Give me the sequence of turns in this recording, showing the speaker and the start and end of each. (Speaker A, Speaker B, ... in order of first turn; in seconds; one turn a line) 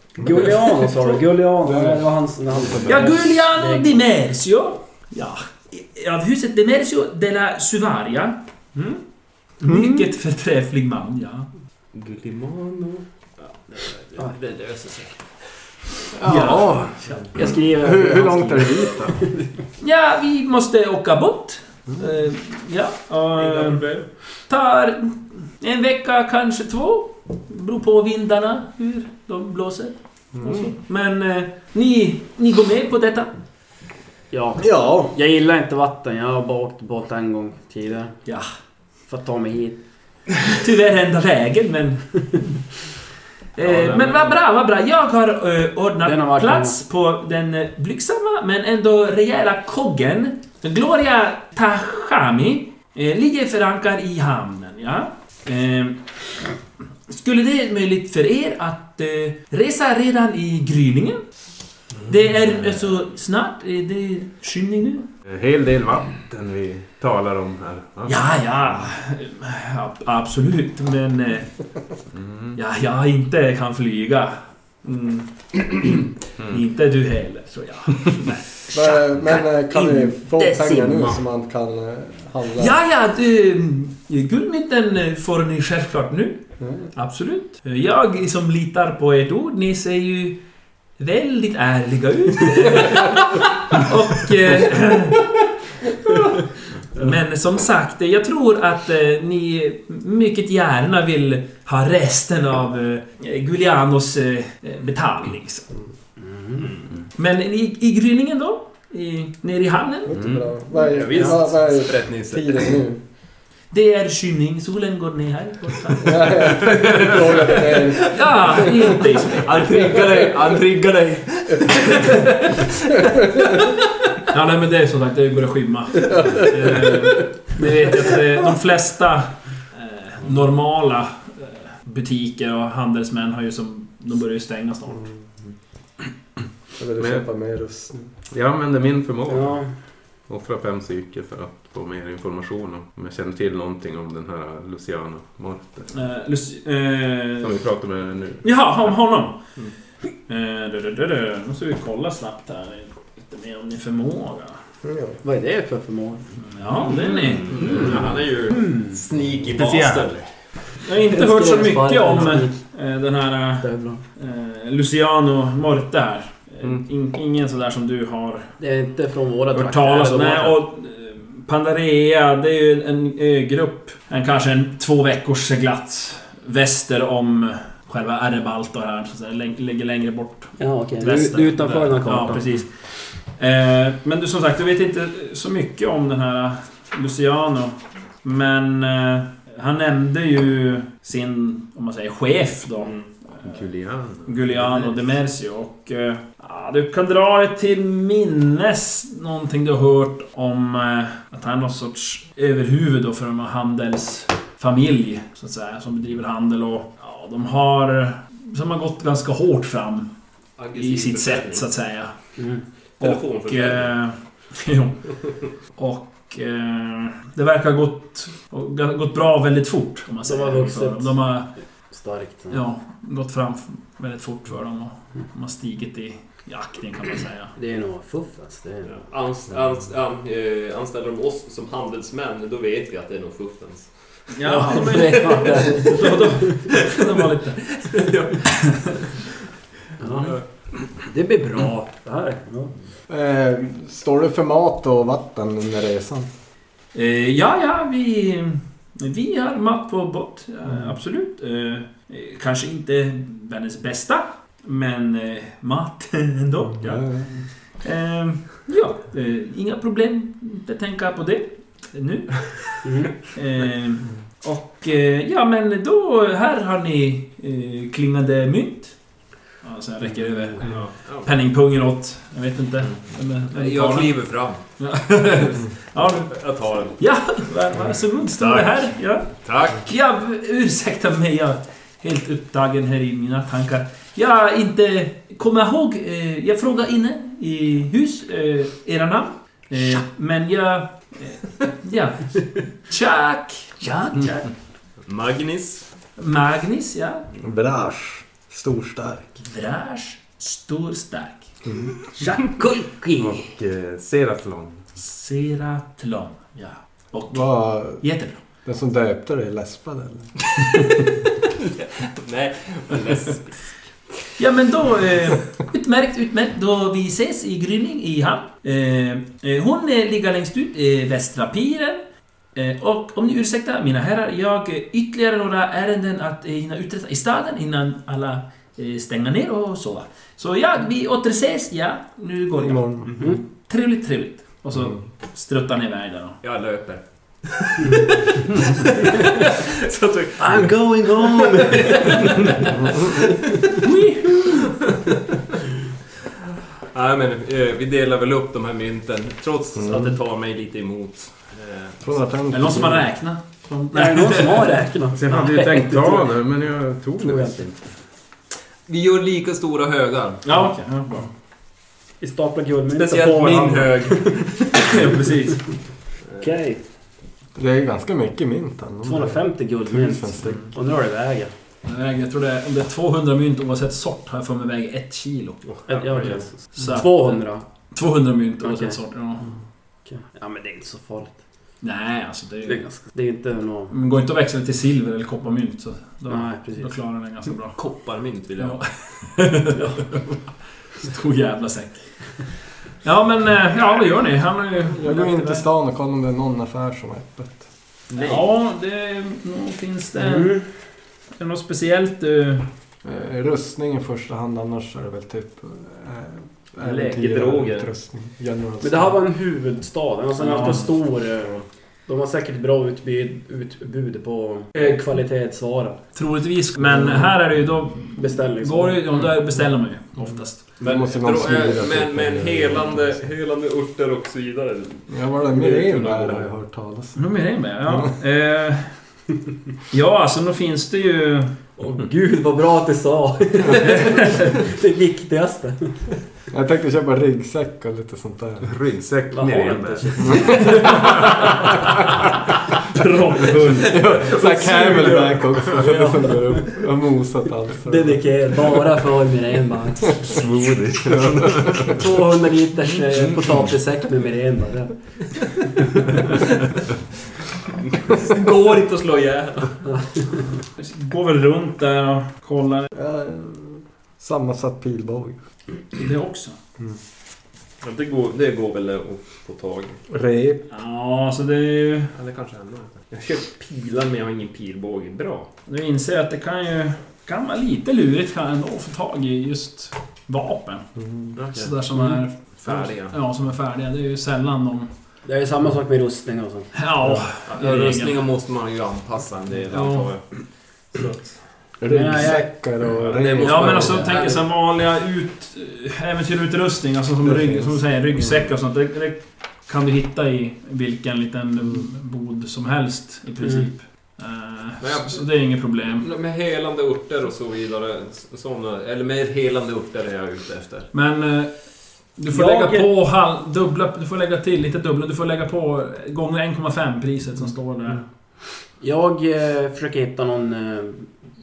Speaker A: 0.2-4.0
Speaker B: 0.3-1.0
Speaker C: 1.6-3.4
Speaker B: 2.9-8.4
Speaker B: 9.6-11.5
Speaker C: 9.6-10.0
Speaker D: 11.9-15.2
Speaker C: 16.2-19.3
Speaker B: 16.2-16.9
Speaker A: 17.3-19.5
Speaker B: 19.8-23.9
Speaker D: 23.3-24.1
Speaker B: 24.5-33.3
Speaker C: 30.4-30.7
Speaker A: 34.3-38.1
Speaker C: 34.6-35.1
Speaker A: 39.1-39.8
Speaker B: 40.6-42.4
Speaker B: 43.5-56.0
Speaker D: 43.6-44.4
Speaker A: 46.0-46.8
Speaker B: 57.1-61.2
Speaker B: 62.1-65.1
Speaker E: 65.3-68.3
Speaker B: 68.1-71.5
Speaker E: 72.1-72.6
Speaker B: 72.6-81.2
Speaker C: 78.7-82.8
Speaker B: 82.6-86.4
Speaker C: 86.6-86.9
Speaker B: 86.9-90.4
Speaker B: 91.0-95.3
Speaker B: 97.0-105.7
Speaker A: 106.2-106.7
Speaker B: 107.2-110.2
Speaker C: 110.1-113.0
Speaker D: 110.2-112.8
Speaker B: 113.7-116.6
Speaker C: 116.0-118.9
Speaker D: 116.7-118.2
Speaker B: 117.8-120.0
Speaker D: 119.3-123.0
Speaker B: 122.0-122.6
Speaker B: 124.3-135.1
Speaker C: 126.1-126.4
Speaker C: 136.8-138.1
Speaker E: 137.0-137.2
Speaker E: 138.3-139.6
Speaker A: 139.3-139.7
Speaker E: 140.3-145.9
Speaker B: 145.9-147.6
Speaker E: 147.4-148.4
Speaker B: 148.4-149.4
Speaker B: 150.3-154.6
Speaker C: 154.8-155.2
Speaker A: 155.2-156.3
Speaker B: 156.6-158.0
Speaker D: 156.7-160.3
Speaker A: 158.5-159.0
Speaker B: 160.8-168.5
Speaker A: 161.0-162.6
Speaker A: 163.6-164.0
Speaker A: 168.6-170.6
Speaker B: 169.5-182.7
Speaker A: 180.6-182.4
Speaker B: 183.4-193.5
Speaker D: 192.8-193.1
Speaker E: 193.4-194.6
Speaker B: 194.3-210.1
Speaker D: 194.6-195.1
Speaker D: 210.6-211.7
Speaker B: 210.7-212.1
Speaker A: 212.4-212.6
Speaker D: 213.0-213.9
Speaker B: 213.0-215.2
Speaker B: 215.7-221.5
Speaker A: 220.2-221.1
Speaker A: 221.9-222.6
Speaker B: 222.5-227.5
Speaker A: 227.6-228.9
Speaker D: 228.8-233.9
Speaker B: 234.3-239.0
Speaker A: 234.4-236.7
Speaker D: 234.9-235.9
Speaker D: 236.7-237.0
Speaker D: 237.8-239.0
Speaker A: 240.0-240.4
Speaker A: 241.0-242.7
Speaker C: 243.1-246.3
Speaker B: 246.9-262.7
Speaker C: 256.8-257.4
Speaker A: 262.8-263.1
Speaker B: 263.3-268.9
Speaker B: 269.6-274.2
Speaker A: 270.1-270.6
Speaker D: 270.6-271.3
Speaker D: 272.8-274.6
Speaker B: 274.8-276.3
Speaker D: 275.9-277.0
Speaker B: 277.0-294.5
Speaker D: 278.3-279.9
Speaker D: 295.1-295.9
Speaker B: 296.2-297.3
Speaker C: 297.4-299.3
Speaker B: 299.4-301.5
Speaker C: 301.7-301.9
Speaker B: 302.2-303.1
Speaker E: 303.1-304.8
Speaker B: 305.0-308.4
Speaker C: 307.3-308.0
Speaker C: 308.6-310.4
Speaker D: 311.6-313.8
Speaker B: 314.4-322.0
Speaker B: 322.6-336.4
Speaker C: 332.6-333.3
Speaker D: 336.4-343.0
Speaker A: 340.4-342.5
Speaker B: 343.8-344.7
Speaker D: 344.4-345.2
Speaker D: 346.9-352.1
Speaker C: 349.8-350.2
Speaker C: 352.0-353.1
Speaker B: 352.5-354.8
Speaker A: 353.9-356.3
Speaker E: 355.1-357.8
Speaker A: 357.2-357.6
Speaker D: 358.9-360.4
Speaker B: 360.4-361.3
Speaker A: 362.2-365.0
Speaker D: 362.9-365.0
Speaker B: 364.7-365.6
Speaker A: 366.4-366.8
Speaker C: 367.6-370.6
Speaker A: 369.1-371.5
Speaker B: 371.9-375.6
Speaker D: 375.7-376.5
Speaker A: 375.9-377.6
Speaker B: 376.8-379.5
Speaker A: 378.6-378.9
Speaker A: 380.1-381.4
Speaker B: 381.8-382.8
Speaker A: 382.7-383.9
Speaker B: 383.9-387.8
Speaker A: 386.3-386.9
Speaker D: 387.8-388.8
Speaker B: 388.6-390.2
Speaker B: 391.0-395.7
Speaker C: 394.9-397.7
Speaker D: 398.1-398.5
Speaker B: 398.2-400.6
Speaker A: 400.2-400.6
Speaker B: 401.4-402.7
Speaker C: 403.0-409.2
Speaker D: 406.8-407.9
Speaker A: 408.8-416.0
Speaker B: 410.4-410.9
Speaker B: 416.1-420.6
Speaker C: 416.8-417.3
Speaker A: 418.2-419.0
Speaker D: 420.8-426.5
Speaker C: 420.8-423.2
Speaker C: 425.1-427.2
Speaker B: 427.2-429.0
Speaker C: 427.9-428.1
Speaker B: 429.9-431.5
Speaker A: 431.8-435.9
Speaker C: 433.7-434.0
Speaker C: 436.5-438.7
Speaker E: 438.6-440.6
Speaker A: 439.3-441.1
Speaker C: 440.2-440.5
Speaker B: 440.8-441.8
Speaker B: 442.9-444.1
Speaker C: 443.6-448.8
Speaker A: 444.7-445.0
Speaker D: 445.0-445.2
Speaker A: 445.7-446.8
Speaker A: 447.8-450.4
Speaker E: 450.2-452.0
Speaker C: 451.1-451.9
Speaker A: 451.8-454.9
Speaker D: 458.0-459.8
Speaker B: 460.8-462.9
Speaker C: 462.9-465.4
Speaker B: 466.0-466.6
Speaker D: 467.8-470.0
Speaker C: 470.1-470.6
Speaker B: 470.7-472.1
Speaker D: 472.1-475.5
Speaker B: 475.7-480.9
Speaker C: 481.0-481.3
Speaker D: 481.4-481.8
Speaker B: 481.5-484.9
Speaker D: 482.6-483.2
Speaker A: 485.2-486.7
Speaker B: 486.7-488.2
Speaker D: 487.5-490.2
Speaker B: 489.7-490.1
Speaker D: 490.9-491.4
Speaker C: 491.8-494.1
Speaker A: 491.9-492.5
Speaker D: 492.9-494.4
Speaker B: 493.4-506.1
Speaker A: 493.8-494.3
Speaker C: 497.2-498.3
Speaker D: 504.8-505.3
Speaker D: 506.0-510.9
Speaker B: 510.9-511.6
Speaker B: 512.2-518.0
Speaker A: 512.3-512.9
Speaker A: 518.8-521.1